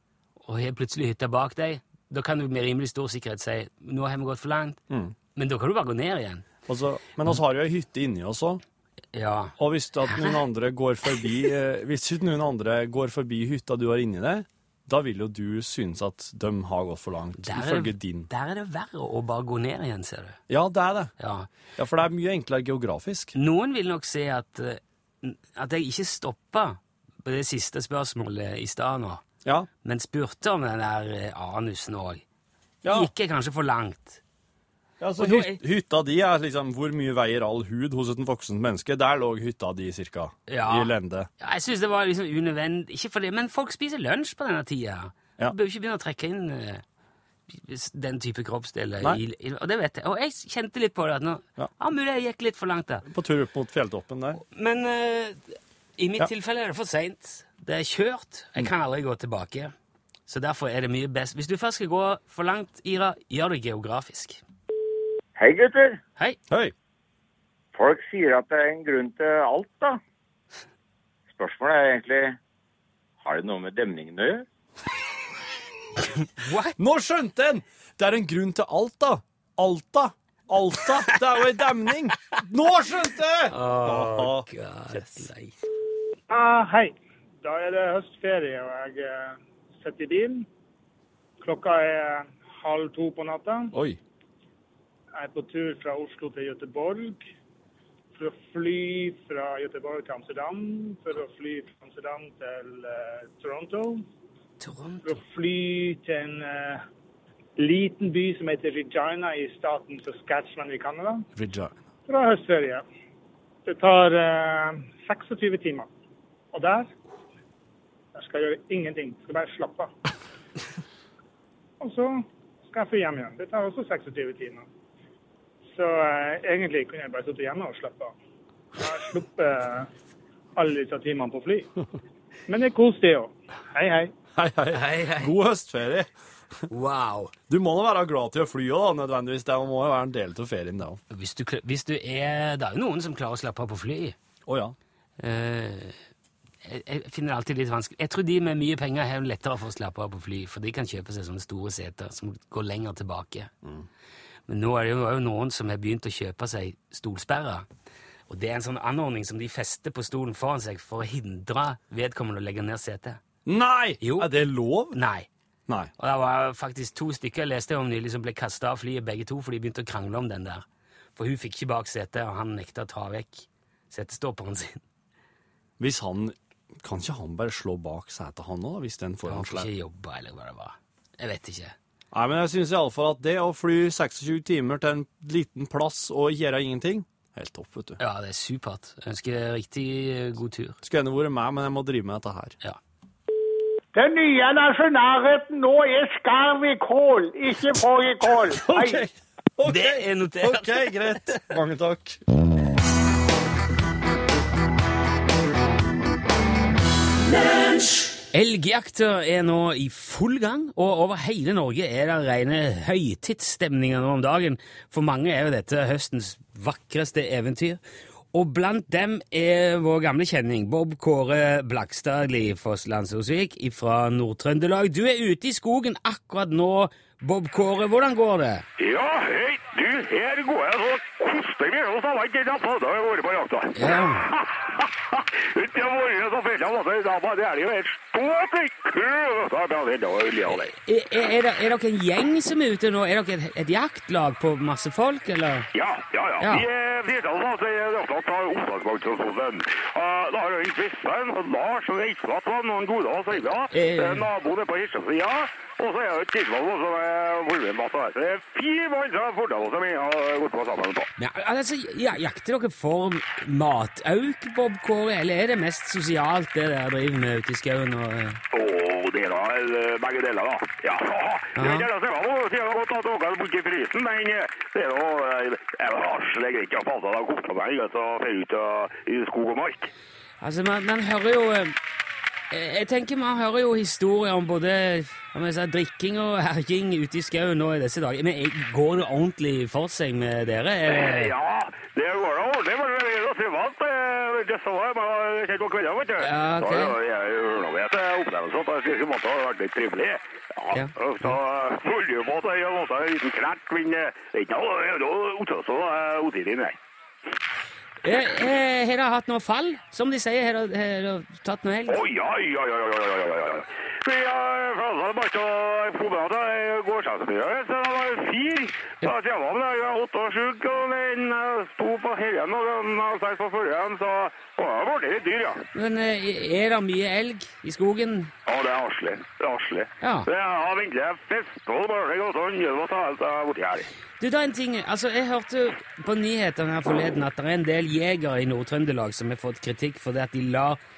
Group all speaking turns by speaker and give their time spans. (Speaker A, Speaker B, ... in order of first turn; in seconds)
Speaker A: 0.4-4.8, 5.3-6.5, 9.1-10.4, 17.4-20.4, 21.2-21.5, 23.4-29.2, 29.8-32.2, 32.9-34.2, 35.2-35.6, 40.5-46.8, 47.5-53.0, 54.4-59.7, 60.3-64.4, 76.2-76.8, 83.5-85.6, 104.6-105.2, 134.7-135.3, 136.7-137.3, 141.1-144.2, 145.2-146.0, 146.6-153.5, 154.5-157.7, 158.3-163.2, 164.0-164.3, 164.9-165.3, 166.0-170.6, 171.2-174.8, 179.3-181.8, 188.0-190.8, 199.7-201.5, 208.3-217.8, 218.3-228.7, 233.8-234.3, 240.5-245.7, 246.4-246.7, 253.7-254.3, 261.2-268.4, 271.6-271.9, 280.4-281.8, 282.5-291.3, 296.2-297.0, 300.7-301.4, 308.0-312.0, 325.7-328.3, 330.0-330.3, 334.2-340.8
Speaker B: 6.7-8.6, 9.6-18.3, 20.5-21.1, 21.8-23.4, 32.8-33.1, 35.0-41.3, 53.0-54.4, 76.8-85.2, 111.4-111.8, 134.4-136.1, 137.5-141.0, 144.5-144.8, 163.5-165.0, 175.8-179.7, 182.1-188.0, 190.8-192.6, 198.6-202.2
Speaker C: 65.4-66.0, 67.8-70.0, 71.3-72.4, 73.2-74.5
Speaker D: 86.3-90.5, 91.4-93.8, 95.2-97.2, 98.2-104.0, 105.0-106.8, 107.6-111.2, 112.1-112.8, 113.7-115.9, 116.5-116.9, 118.2-119.9, 121.8-124.7, 125.7-128.1, 128.8-129.9, 130.6-131.7, 132.5-134.1
Speaker E: 193.9-199.1
Speaker F: 228.8-240.7, 245.7-261.1, 268.5-279.9, 290.9-306.8, 311.9-325.6, 328.5-333.9